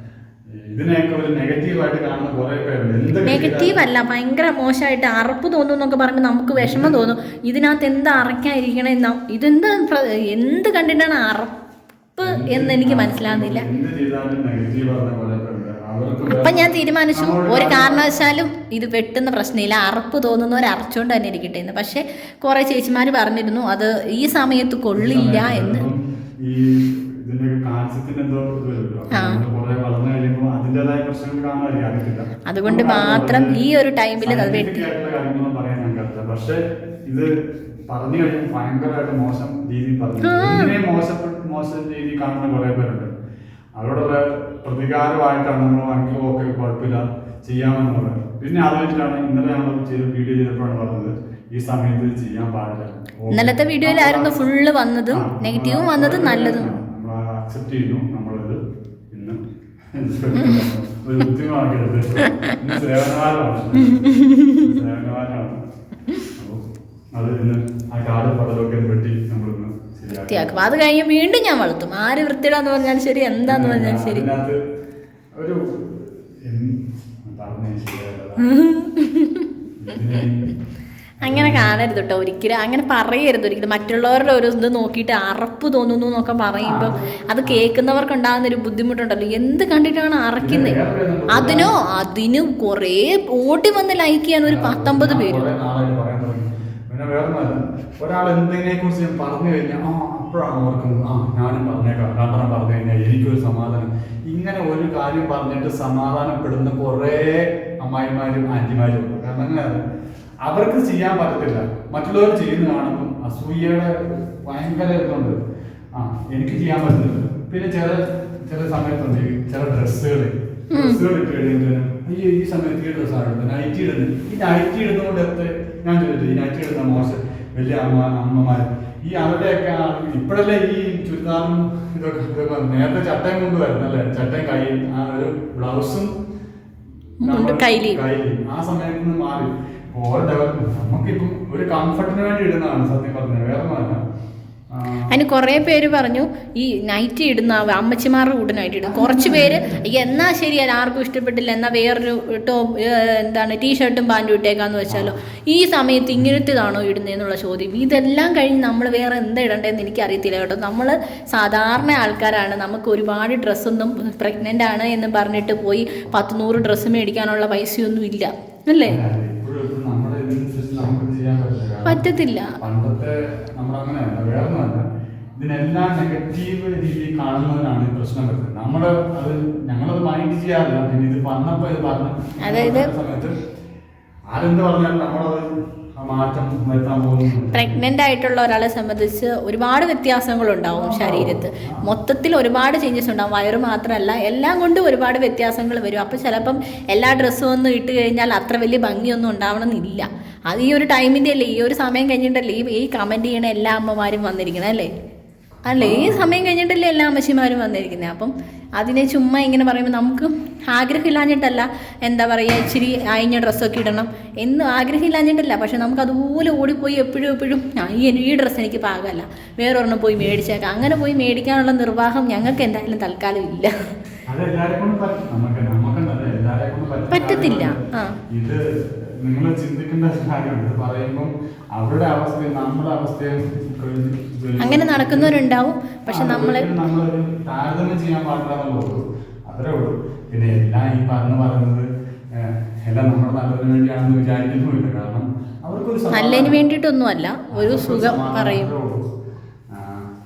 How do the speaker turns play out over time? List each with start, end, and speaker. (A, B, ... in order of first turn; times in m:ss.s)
0:00.5-0:03.8 A
0:03.3-0:11.5 B
0:06.6-0:07.0 A
0:12.2-0:13.7 B
0:12.2-0:18.1 A
0:16.3-0:25.9 B
0:25.0-0:33.6 A
0:29.1-0:29.4 B
0:32.5-0:34.9 B
0:34.2-0:37.3 A
0:37.9-0:43.1 A
0:40.2-0:40.8 B
0:43.8-0:54.5 A
0:53.3-0:56.7 B
0:55.1-0:58.6 A
0:59.1-0:59.4 A
0:59.9-1:05.6 A
1:00.4-1:00.7 B
1:02.2-1:02.6 B
1:03.8-1:04.7 B
1:07.2-1:10.6 A
1:10.2-1:14.3 B
1:13.5-1:14.6 A
1:15.4-1:18.5 A
1:18.4-1:19.5 B
1:19.8-1:20.5 A
1:21.2-1:21.8 A
1:21.2-1:30.8 B
1:26.6-1:27.6 A
1:30.4-1:31.7 A
1:31.3-1:35.4 B
1:34.4-1:49.8 A
1:50.4-1:55.4 A
1:56.0-2:16.1 A
2:00.7-2:01.0 B
2:17.2-2:24.0 A
2:17.2-2:18.0 B
2:24.7-2:25.1 A
2:25.1-2:49.0 B
2:28.8-2:29.9 A
2:48.8-2:52.0 A
2:51.9-2:52.5 B
2:52.6-2:54.9 A
2:55.4-3:03.4 A
3:02.4-3:02.9 B
3:04.3-3:07.8 A
3:07.5-3:24.9 B
3:10.7-3:11.9 A
3:25.7-3:43.7 B
3:25.8-3:26.3 A
3:44.3-3:47.8 A
3:47.1-3:48.2 B
3:48.3-3:55.4 A
3:54.6-3:56.7 B
3:56.1-4:06.6 A
4:06.1-4:08.7 B
4:07.5-4:09.0 A
4:09.7-4:10.1 A